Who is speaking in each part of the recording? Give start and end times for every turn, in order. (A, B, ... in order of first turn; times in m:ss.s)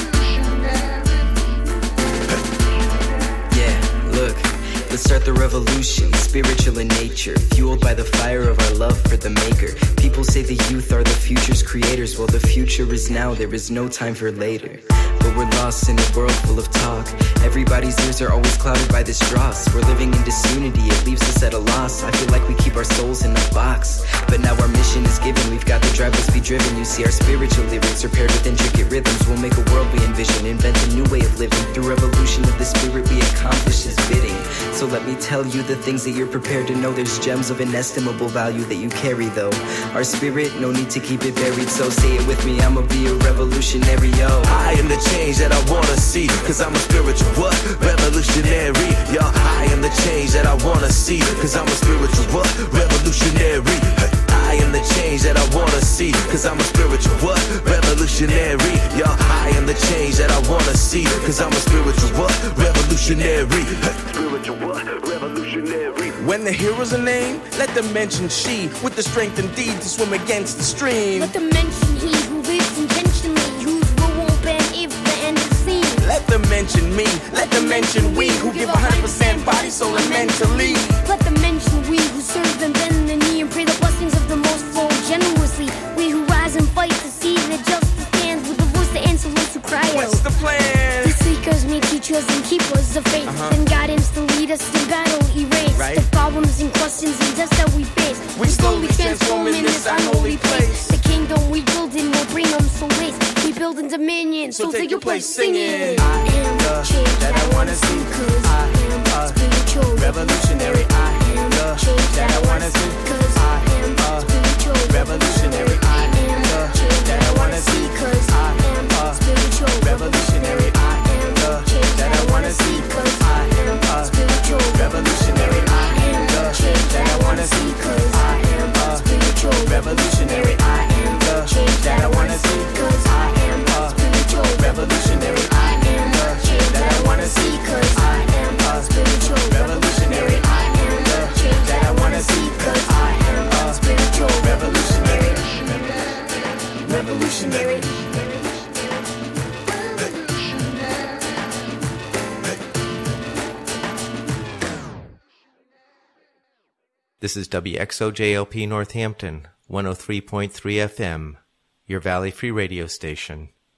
0:03.5-0:44.6 A
0:44.4-1:06.2 B
1:06.2-1:11.3 C
1:11.1-1:16.1 D
1:16.0-1:21.0 C
1:17.4-1:30.4 D
1:29.9-1:31.2 C
1:31.0-2:26.2 D
1:33.3-1:33.6 C
1:35.8-1:36.0 C
1:38.4-1:41.0 C
1:44.6-1:46.1 C
2:26.8-2:28.9 D
2:37.2-2:43.5 E